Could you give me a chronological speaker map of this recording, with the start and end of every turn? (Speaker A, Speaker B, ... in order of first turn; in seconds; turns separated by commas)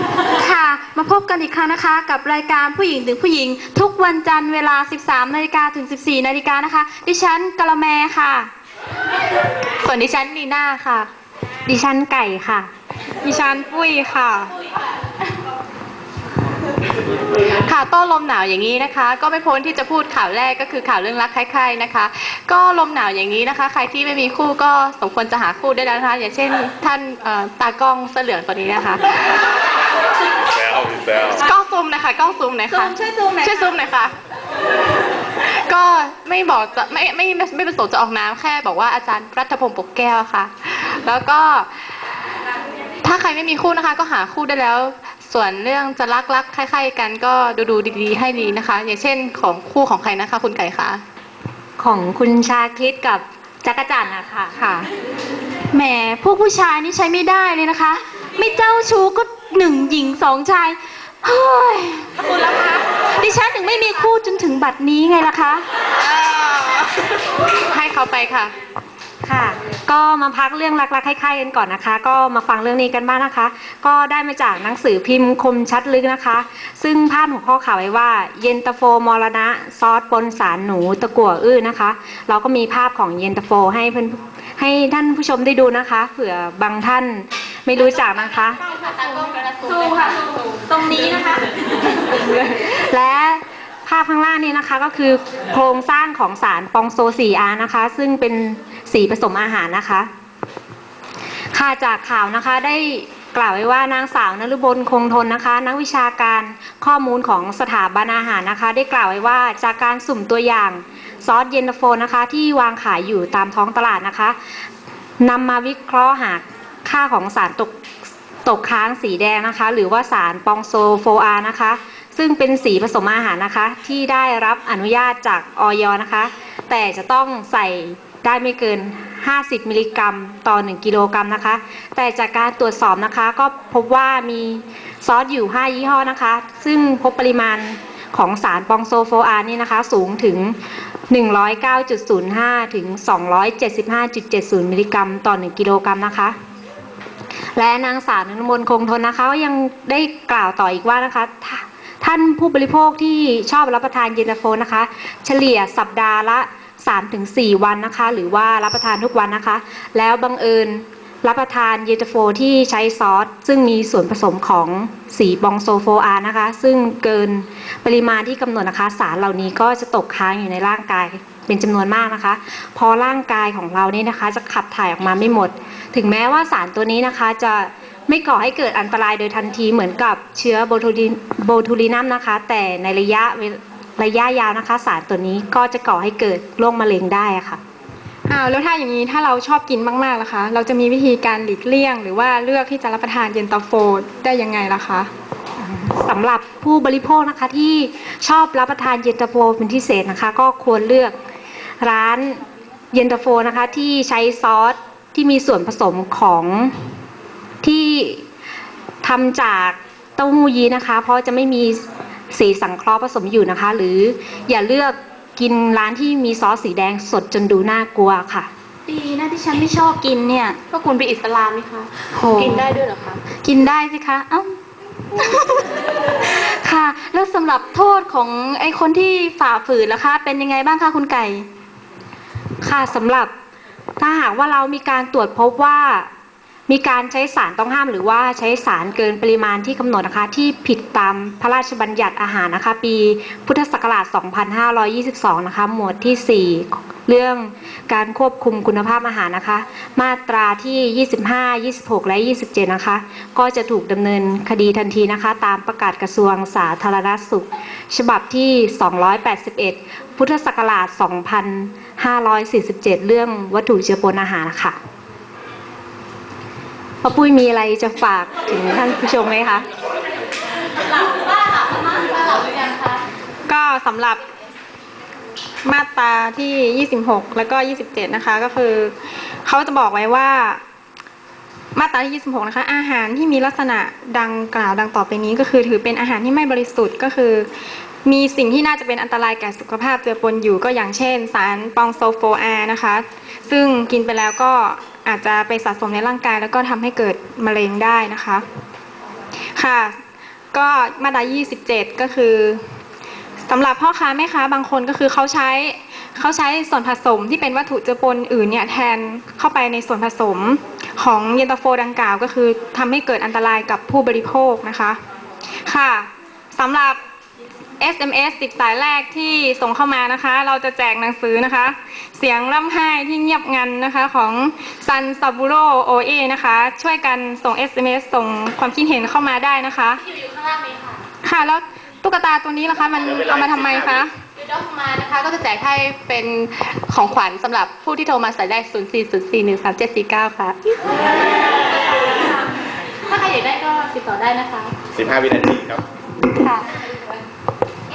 Speaker A: 0.3-8.5, Speaker B: 9.8-11.1, Speaker C: 11.7-12.7, Speaker D: 13.2-14.5, Speaker B: 17.4-29.5, Speaker E: 30.7-31.3, Speaker B: 31.3-34.1, Speaker A: 32.7-33.7, Speaker B: 35.4-42.0, Speaker B: 43.0-51.0, Speaker C: 51.8-54.7, Speaker A: 55.7-65.7, Speaker B: 66.0-68.5, Speaker C: 69.2-88.6, Speaker B: 87.8-90.6, Speaker A: 89.6-91.5, Speaker C: 92.1-100.1, Speaker C: 101.5-114.4, Speaker C: 115.2-117.7, Speaker C: 118.5-140.6, Speaker C: 141.1-146.4, Speaker C: 147.6-187.6, Speaker D: 188.3-195.1, Speaker C: 195.6-201.1, Speaker C: 201.8-206.7, Speaker C: 207.6-208.2, Speaker C: 209.0-218.5, Speaker A: 218.9-220.6, Speaker B: 220.7-223.2, Speaker A: 222.1-222.7, Speaker A: 223.4-224.5, Speaker A: 225.2-225.7, Speaker A: 226.2-231.5, Speaker C: 232.6-233.3, Speaker C: 234.0-236.1, Speaker C: 236.7-264.8, Speaker C: 267.0-269.7, Speaker B: 271.0-273.0, Speaker D: 273.5-274.2, Speaker D: 275.6-278.9, Speaker D: 279.5-280.6, Speaker D: 281.8-287.5, Speaker D: 288.1-298.4, Speaker D: 299.6-299.9, Speaker D: 300.5-302.6, Speaker D: 303.5-315.0, Speaker D: 315.7-317.0, Speaker D: 317.8-330.0, Speaker B: 330.0-331.0, Speaker D: 331.2-334.1, Speaker E: 333.0-334.1, Speaker B: 334.4-340.9, Speaker B: 343.1-344.8, Speaker E: 344.9-345.8, Speaker B: 346.4-346.7